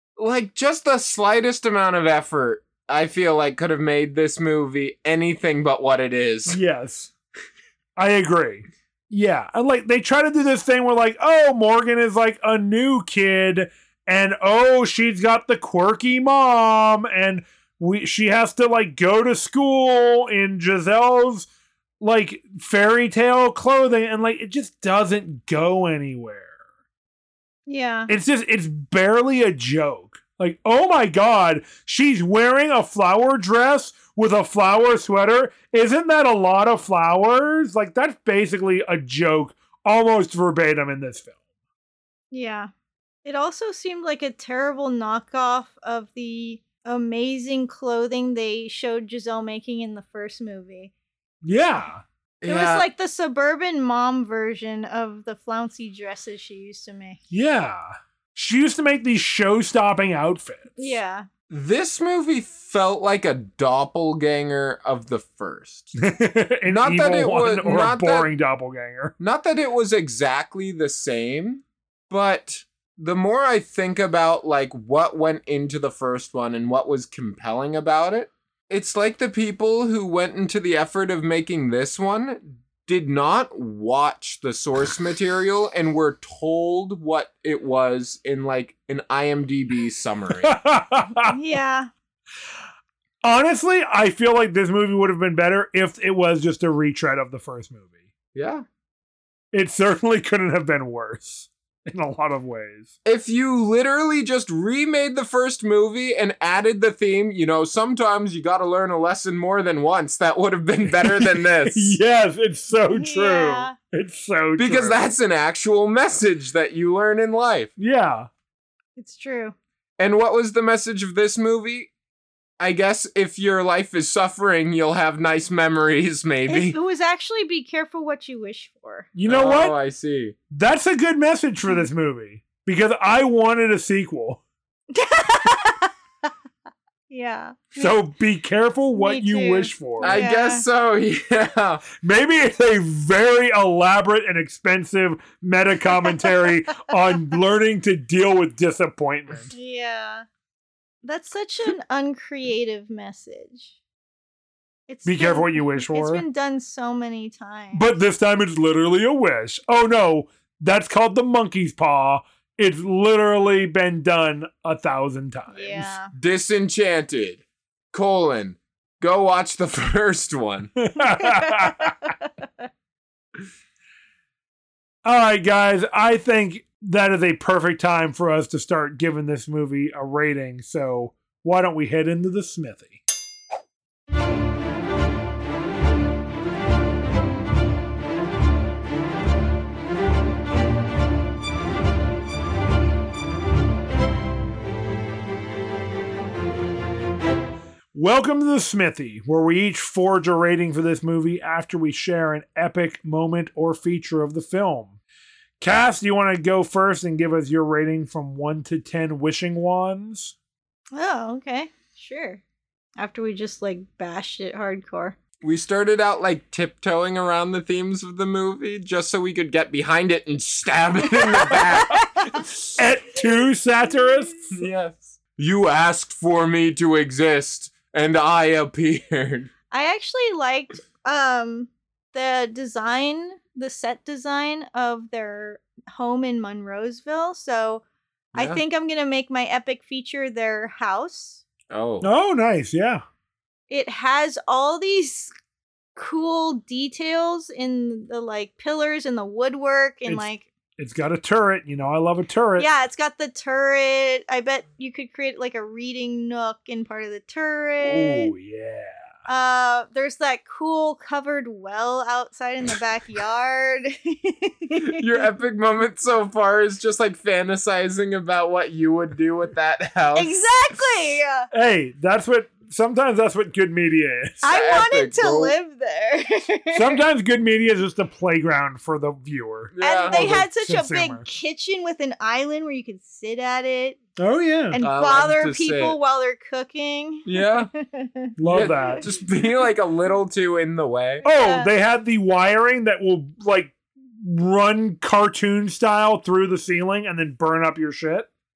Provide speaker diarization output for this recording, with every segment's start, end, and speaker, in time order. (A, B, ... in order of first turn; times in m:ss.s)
0:00.2-0:06.6 A
0:06.5-0:07.1 B
0:08.0-0:21.5 B
0:22.0-0:26.5 B
0:27.7-0:28.1 C
0:28.1-0:41.4 B
0:42.3-0:42.7 C
0:43.2-0:50.9 C
0:51.4-0:52.0 B
0:52.4-0:52.9 A
0:52.4-0:57.2 C
0:57.3-1:01.0 B
1:00.8-1:01.3 C
1:01.5-1:05.9 A
1:06.0-1:09.1 B
1:06.7-1:08.3 A
1:09.2-1:30.6 A
1:30.4-1:31.4 B
1:31.3-1:31.9 C
1:33.2-1:37.9 B
1:38.3-1:38.6 A
1:39.5-1:42.9 B
1:43.0-1:52.0 A
1:51.0-1:55.0 B
1:52.9-1:53.8 C
1:54.6-1:57.7 A
1:57.8-1:58.3 B
1:59.0-1:59.6 C
2:00.0-2:01.9 A
2:02.6-2:06.8 A
2:06.5-2:09.1 C
2:09.2-2:09.8 B
2:09.3-2:10.4 A
2:10.5-2:14.4 B
2:14.9-2:15.9 C
2:17.1-2:18.0 C
2:17.8-2:20.2 B
2:19.0-2:20.6 C
2:20.0-2:21.8 A
2:22.0-2:29.5 B
2:29.5-2:30.2 C
2:31.0-2:33.7 C
2:34.9-2:37.9 C
2:35.0-2:36.2 B
2:37.7-2:45.9 B
2:45.5-2:46.1 C
2:46.2-2:50.7 A
2:50.8-2:52.0 B
2:51.2-2:52.3 C
2:55.0-3:03.0 B
3:17.9-3:25.0 B
3:25.6-3:30.3 B
3:30.9-3:32.4 C
3:33.0-3:35.2 C
3:35.4-3:42.1 A
3:41.5-3:42.4 C
3:42.8-3:44.5 B
3:44.5-3:49.5 A
3:49.7-4:01.4 C
3:58.4-3:58.6 A
4:01.7-4:02.1 A
4:02.0-4:03.0 B
4:03.7-4:05.3 C
4:06.0-4:10.5 C
4:10.8-4:12.7 B
4:12.6-4:18.3 C
4:17.8-4:19.0 B
4:19.3-4:25.1 C
4:24.8-4:30.4 A
4:30.2-4:31.5 C
4:31.5-4:34.4 B
4:34.4-4:37.0 C
4:34.4-4:35.5 A
4:36.7-4:41.3 B
4:39.8-4:40.4 A
4:39.8-4:44.0 C
4:44.2-4:44.8 B
4:44.7-4:49.0 C
4:44.8-4:46.0 A
4:47.3-4:47.7 A
4:48.4-4:49.1 B
4:48.5-4:51.2 A
4:51.2-4:51.7 C
4:51.2-4:58.3 B